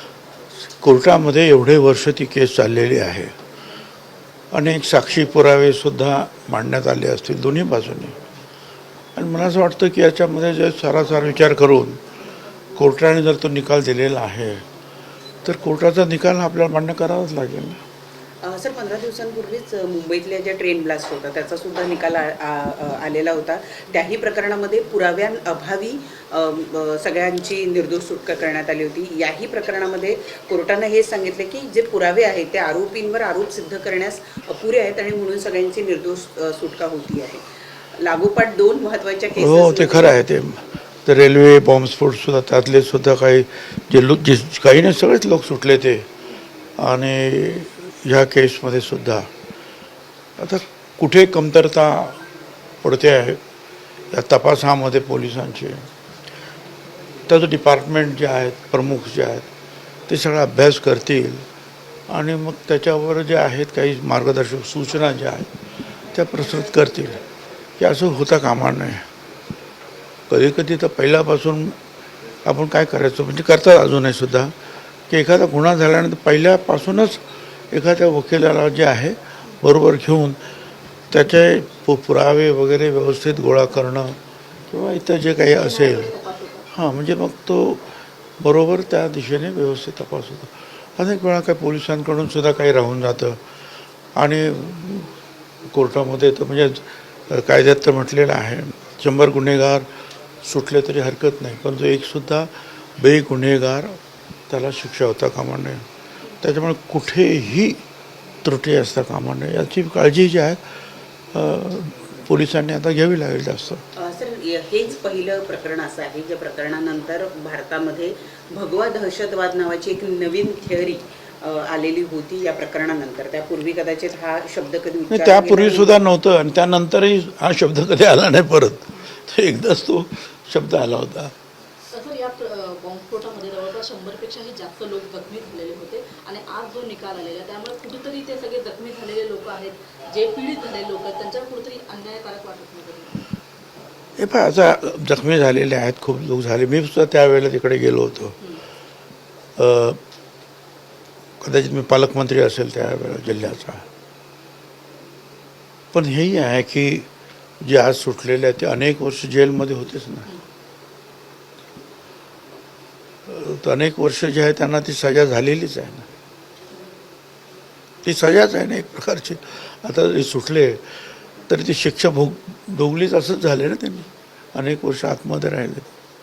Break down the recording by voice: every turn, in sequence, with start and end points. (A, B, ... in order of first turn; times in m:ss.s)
0:00.8-0:03.4 A
0:04.5-0:08.2 A
0:09.2-0:12.0 A
0:12.8-0:14.6 A
0:15.4-0:17.8 A
0:18.4-0:37.4 B
0:37.9-0:40.2 B
0:39.3-0:46.1 A
0:46.8-0:49.3 A
0:50.4-0:52.2 A
0:52.8-0:53.4 A
0:54.1-0:55.8 A
0:57.3-0:59.5 A
1:00.1-1:01.4 A
1:02.1-1:05.5 A
1:06.1-1:07.2 A
1:07.8-1:09.1 A
1:10.3-1:11.8 A
1:12.4-1:14.5 A
1:15.1-1:20.4 A
1:21.1-1:24.2 A
1:24.7-1:26.1 A
1:25.5-1:26.6 C
1:26.7-1:27.8 A
1:28.4-1:33.4 A
1:34.2-1:35.1 A
1:35.7-1:39.9 A
1:40.4-1:45.8 A
1:46.4-1:47.8 A
1:48.4-1:50.7 A
1:51.3-1:53.8 A
1:54.0-2:05.9 B
2:05.1-2:11.3 A
2:11.9-2:23.2 C
2:24.2-2:28.4 A
2:29.6-2:30.0 A
2:31.4-2:33.8 A
2:35.9-2:37.1 A
2:37.6-2:40.3 A
2:43.3-2:46.1 A
2:48.0-2:50.8 A
2:51.5-2:55.9 A